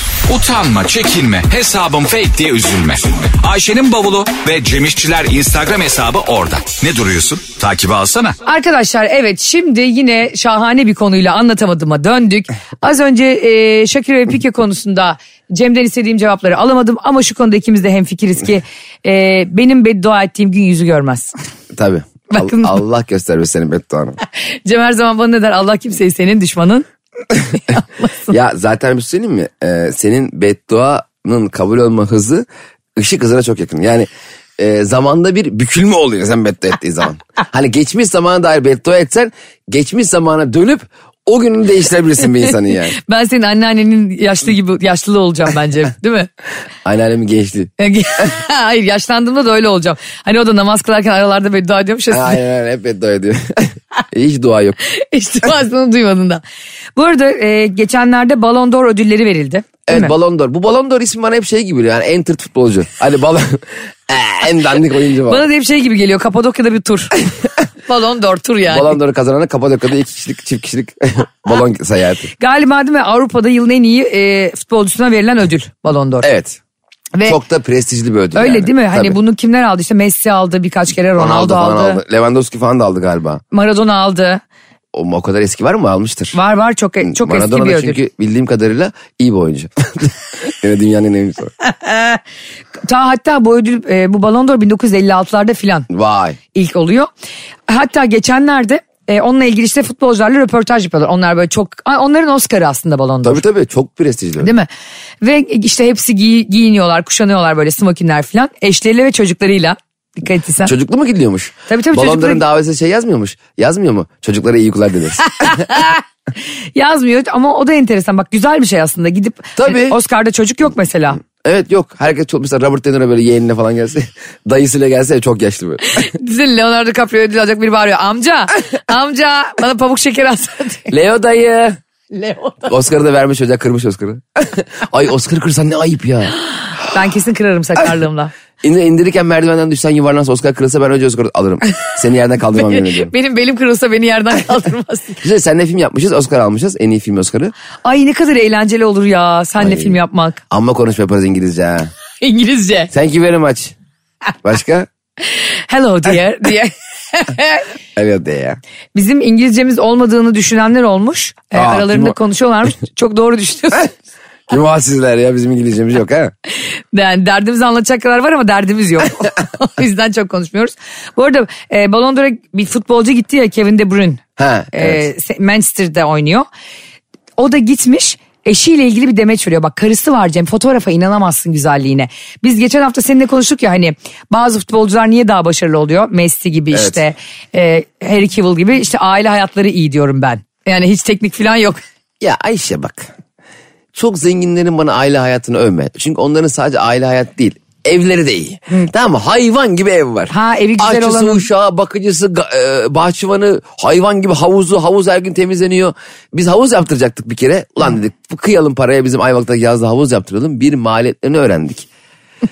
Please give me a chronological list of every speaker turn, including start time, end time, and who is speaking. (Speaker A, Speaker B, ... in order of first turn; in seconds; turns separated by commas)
Speaker A: 0.3-8.4, Speaker B: 8.4-21.3, Speaker C: 21.7-24.2, Speaker B: 22.3-22.8, Speaker B: 24.4-26.9, Speaker B: 27.5-28.3, Speaker C: 28.3-43.0, Speaker B: 42.9-46.3, Speaker C: 46.8-47.7, Speaker B: 47.8-52.4, Speaker C: 52.1-54.8, Speaker B: 54.8-56.4, Speaker B: 57.0-60.1, Speaker C: 59.9-65.4, Speaker B: 65.3-67.2, Speaker B: 67.9-69.0, Speaker C: 68.7-72.3, Speaker B: 72.4-76.3, Speaker C: 76.2-76.6, Speaker C: 77.2-79.2, Speaker B: 78.3-82.0, Speaker C: 81.2-83.4, Speaker B: 83.5-84.4, Speaker C: 84.9-86.3, Speaker B: 86.3-88.0, Speaker C: 87.0-91.5, Speaker B: 91.8-92.2, Speaker B: 92.8-95.9, Speaker C: 95.9-96.4, Speaker B: 96.5-97.1, Speaker B: 97.7-103.4, Speaker C: 103.2-104.5, Speaker B: 104.4-104.7, Speaker B: 105.2-110.7, Speaker C: 110.6-115.7, Speaker B: 111.7-112.4, Speaker B: 115.2-116.0, Speaker B: 116.7-121.2, Speaker C: 119.5-120.0, Speaker C: 121.2-126.0, Speaker B: 125.8-130.9, Speaker C: 130.9-131.8, Speaker B: 132.1-132.7, Speaker C: 132.7-136.3, Speaker B: 136.8-138.3, Speaker C: 138.6-143.1, Speaker B: 142.5-145.2, Speaker C: 145.2-147.5, Speaker B: 147.8-150.4, Speaker C: 149.6-150.0, Speaker C: 150.5-151.9, Speaker B: 152.2-152.9, Speaker C: 152.9-153.7, Speaker C: 154.4-154.9, Speaker B: 155.3-157.7, Speaker C: 157.9-158.6, Speaker B: 158.9-163.9, Speaker C: 161.5-162.2, Speaker C: 164.5-166.3, Speaker B: 166.9-176.5, Speaker C: 174.4-175.0, Speaker B: 177.4-191.8, Speaker C: 186.7-187.0, Speaker C: 192.2-193.1, Speaker C: 193.9-211.9, Speaker B: 200.3-201.5